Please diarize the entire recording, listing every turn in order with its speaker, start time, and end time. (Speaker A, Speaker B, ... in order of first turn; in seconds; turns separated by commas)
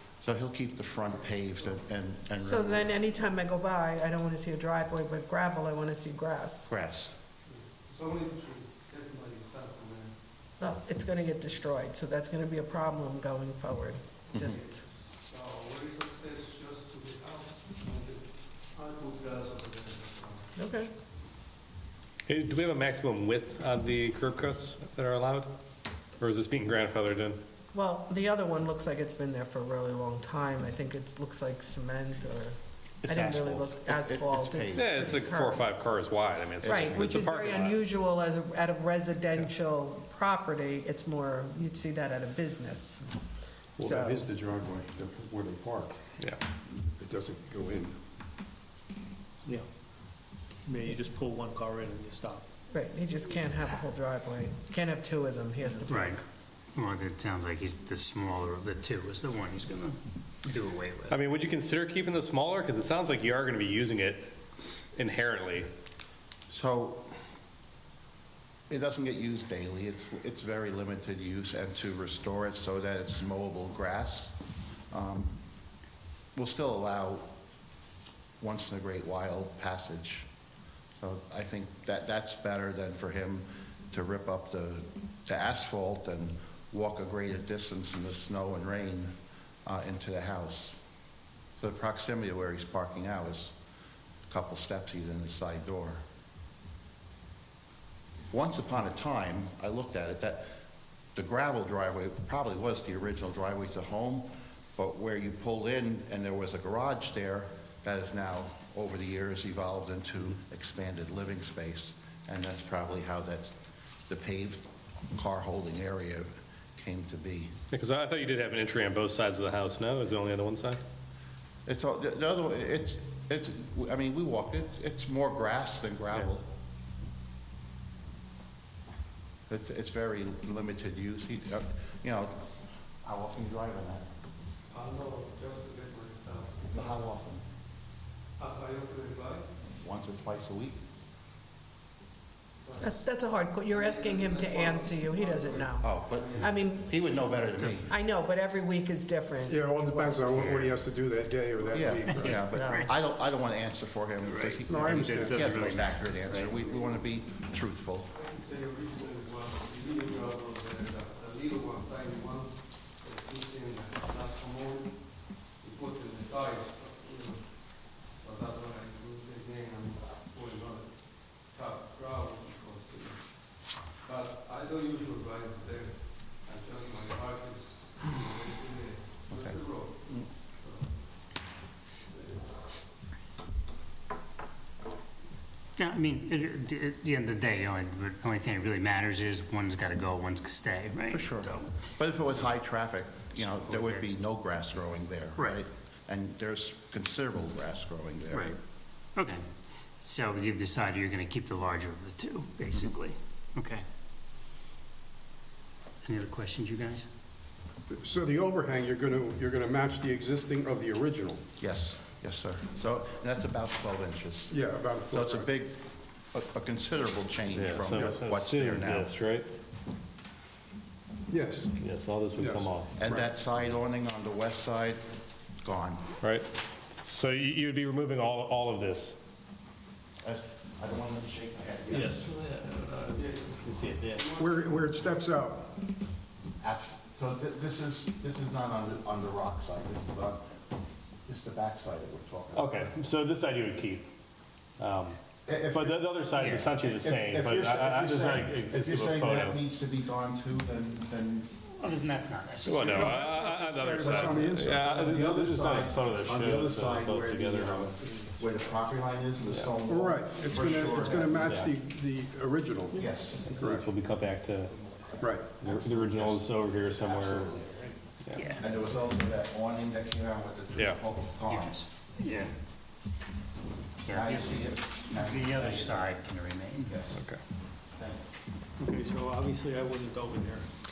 Speaker A: 0.2-3.0, Speaker B: 2.4-6.7, Speaker A: 6.7-7.2, Speaker C: 7.5-10.2, Speaker B: 10.6-14.8, Speaker A: 14.3-14.6, Speaker C: 14.4-20.5, Speaker B: 20.5-20.9, Speaker D: 22.3-25.5, Speaker D: 26.2-27.4, Speaker B: 27.7-35.7, Speaker A: 33.0-35.1, Speaker D: 34.7-37.8, Speaker A: 36.6-37.1, Speaker B: 36.6-43.0, Speaker E: 43.8-46.0, Speaker B: 43.8-44.2, Speaker E: 46.7-47.9, Speaker F: 50.6-52.4, Speaker B: 52.7-56.2, Speaker G: 55.9-56.2, Speaker G: 56.7-61.2, Speaker D: 61.1-64.3, Speaker D: 65.0-65.7, Speaker A: 66.5-67.1, Speaker A: 68.7-74.4, Speaker A: 74.9-75.4, Speaker A: 76.3-77.3, Speaker A: 78.4-80.3, Speaker A: 81.0-89.1, Speaker A: 89.7-90.8, Speaker A: 91.6-93.5, Speaker A: 94.3-96.0, Speaker A: 98.3-100.5, Speaker A: 101.1-113.5, Speaker A: 114.1-117.5, Speaker D: 117.7-120.8, Speaker A: 121.7-126.4, Speaker A: 129.5-132.5, Speaker A: 133.0-134.1, Speaker C: 134.7-137.1, Speaker A: 136.7-137.4, Speaker C: 138.4-139.5, Speaker A: 139.7-140.8, Speaker C: 142.6-146.7, Speaker B: 142.8-150.5, Speaker A: 145.8-147.9, Speaker G: 147.5-147.8, Speaker E: 149.5-152.4, Speaker G: 150.3-150.7, Speaker A: 151.7-158.1, Speaker G: 152.1-152.9, Speaker B: 152.3-152.9, Speaker G: 154.2-156.6, Speaker E: 154.6-155.6, Speaker C: 158.1-182.6, Speaker A: 179.3-180.2, Speaker G: 185.8-191.7, Speaker A: 191.1-198.6, Speaker G: 193.3-194.0, Speaker G: 198.3-198.6, Speaker G: 199.2-199.4, Speaker G: 200.0-203.8, Speaker G: 206.0-207.1, Speaker E: 207.9-211.4, Speaker A: 211.6-214.6, Speaker E: 214.5-215.5, Speaker A: 215.1-219.1, Speaker D: 217.5-219.5, Speaker E: 217.9-218.2, Speaker E: 221.3-221.7, Speaker D: 221.8-222.9, Speaker E: 222.3-223.3, Speaker A: 222.9-225.0, Speaker A: 225.6-226.0, Speaker D: 226.2-226.4, Speaker D: 227.0-229.2, Speaker A: 230.2-232.3, Speaker D: 231.9-234.3, Speaker C: 233.1-235.3, Speaker E: 234.3-235.7, Speaker A: 236.6-240.4, Speaker A: 241.2-242.8, Speaker D: 242.5-244.1, Speaker D: 244.8-249.6, Speaker A: 245.5-245.9, Speaker G: 246.3-246.7, Speaker A: 246.8-251.5, Speaker G: 251.8-253.3, Speaker D: 252.6-257.9, Speaker E: 252.9-255.0, Speaker A: 253.2-261.6, Speaker D: 259.5-259.7, Speaker E: 259.9-263.9, Speaker D: 261.4-261.7, Speaker A: 262.9-263.6, Speaker F: 263.1-263.6, Speaker D: 263.5-264.7, Speaker E: 265.2-265.5, Speaker D: 265.6-267.5, Speaker A: 265.6-268.0, Speaker D: 268.2-268.6, Speaker G: 268.3-268.6, Speaker A: 268.6-271.8, Speaker G: 271.5-272.5, Speaker G: 274.1-276.9, Speaker A: 274.1-276.2, Speaker A: 276.8-277.1, Speaker D: 277.1-277.4, Speaker A: 277.9-278.2, Speaker F: 278.8-280.7